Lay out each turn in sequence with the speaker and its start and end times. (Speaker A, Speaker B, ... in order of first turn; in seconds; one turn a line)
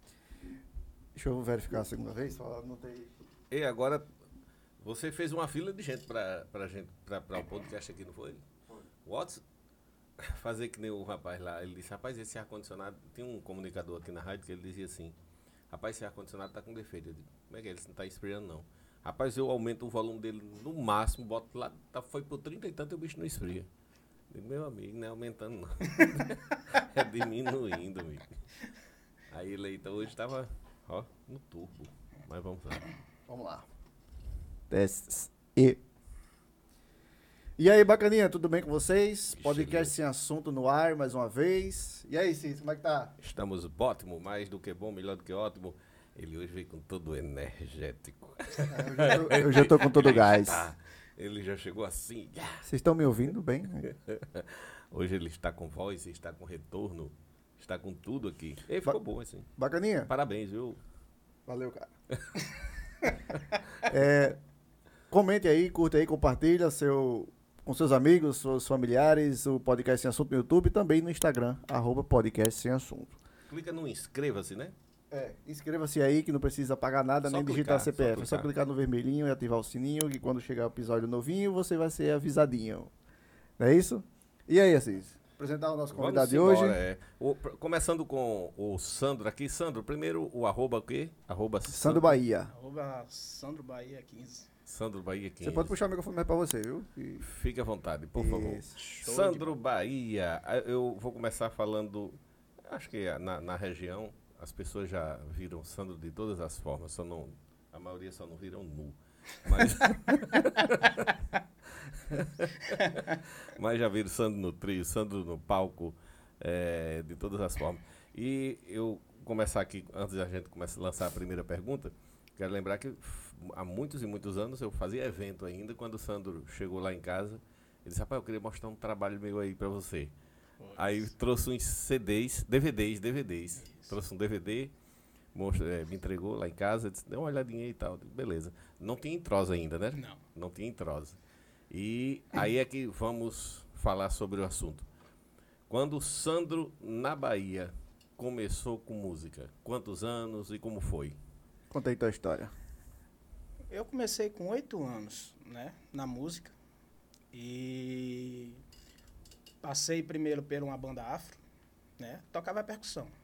Speaker A: 1.1-3.1
Speaker B: 3.5-4.1
Speaker B: 4.8-8.4
Speaker B: 9.1-9.4
Speaker B: 10.2-15.2
Speaker B: 15.7-23.7
Speaker B: 24.3-28.3
Speaker B: 29.3-32.8
Speaker A: 33.3-33.6
Speaker A: 34.7-35.8
Speaker A: 37.6-43.1
Speaker B: 39.4-39.9
Speaker B: 43.2-52.6
Speaker A: 48.7-50.7
Speaker A: 52.6-53.9
Speaker B: 53.9-59.5
Speaker A: 59.6-60.1
Speaker B: 60.1-60.8
Speaker A: 61.5-61.9
Speaker A: 63.8-64.4
Speaker A: 65.1-73.2
Speaker B: 73.5-74.7
Speaker A: 75.1-82.9
Speaker B: 77.2-78.5
Speaker A: 83.6-86.8
Speaker B: 85.9-92.2
Speaker A: 91.7-92.5
Speaker C: 92.5-94.5
Speaker B: 94.7-95.7
Speaker A: 95.4-97.2
Speaker B: 97.2-111.1
Speaker A: 98.1-98.8
Speaker C: 99.0-99.5
Speaker B: 111.9-130.1
Speaker C: 112.7-113.1
Speaker C: 130.6-131.1
Speaker B: 130.8-134.7
Speaker C: 133.6-133.9
Speaker B: 135.3-141.2
Speaker C: 139.9-140.2
Speaker B: 141.7-144.8
Speaker B: 145.7-151.2
Speaker A: 151.7-152.5
Speaker C: 153.7-156.5
Speaker C: 157.3-158.6
Speaker C: 159.6-161.4
Speaker C: 162.0-163.1